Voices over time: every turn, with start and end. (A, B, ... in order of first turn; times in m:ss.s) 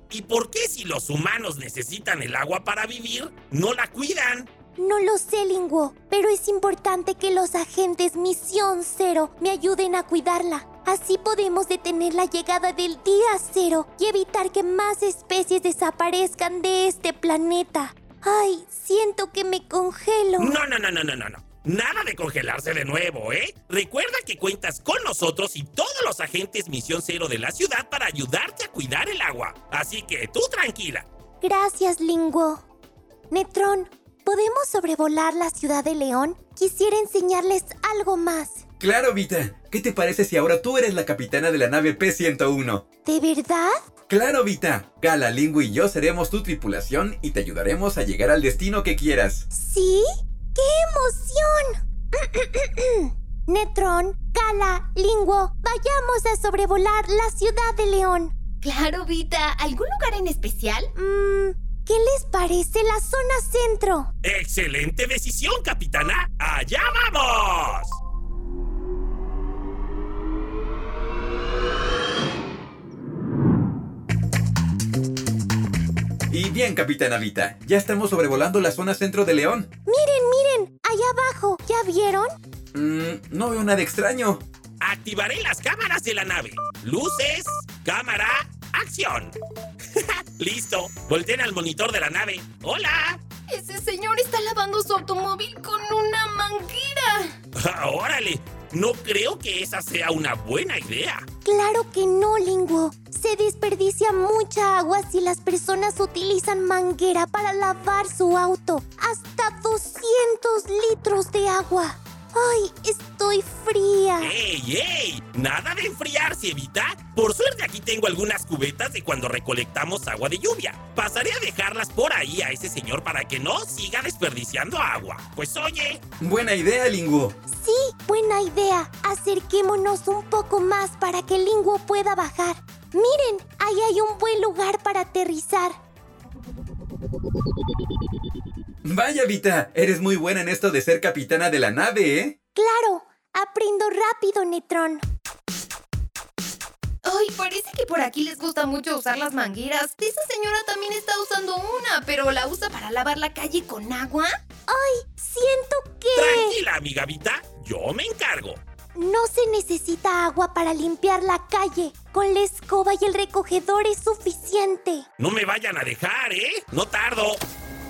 0:00.1-0:04.5 A
0:04.8-0:20.6 B
0:20.4-0:31.0 A
0:31.4-0:32.6 B
0:33.3-0:38.6 B
0:38.8-0:42.8 C
0:43.0-0:43.7 B
0:44.1-0:49.5 C
0:49.5-0:50.0 B
0:50.5-0:58.3 B
0:58.6-1:00.9 D
1:01.0-1:04.1 B
1:04.2-1:08.0 A
1:16.3-1:19.7 C
1:19.9-1:22.3 B
1:22.7-1:24.4 C
1:24.8-1:29.4 A
1:29.9-1:33.2 A
1:33.5-1:37.3 D
1:37.6-1:41.2 A
1:41.4-1:54.3 B
1:54.2-2:06.0 A
2:06.2-2:07.4 C
2:07.5-2:15.8 B
2:18.8-2:22.4 C
2:22.5-2:25.0 B
2:27.0-2:34.4 D
2:34.7-2:36.6 B
2:36.1-2:38.6 A
2:39.0-2:45.0 B
2:45.2-2:47.4 A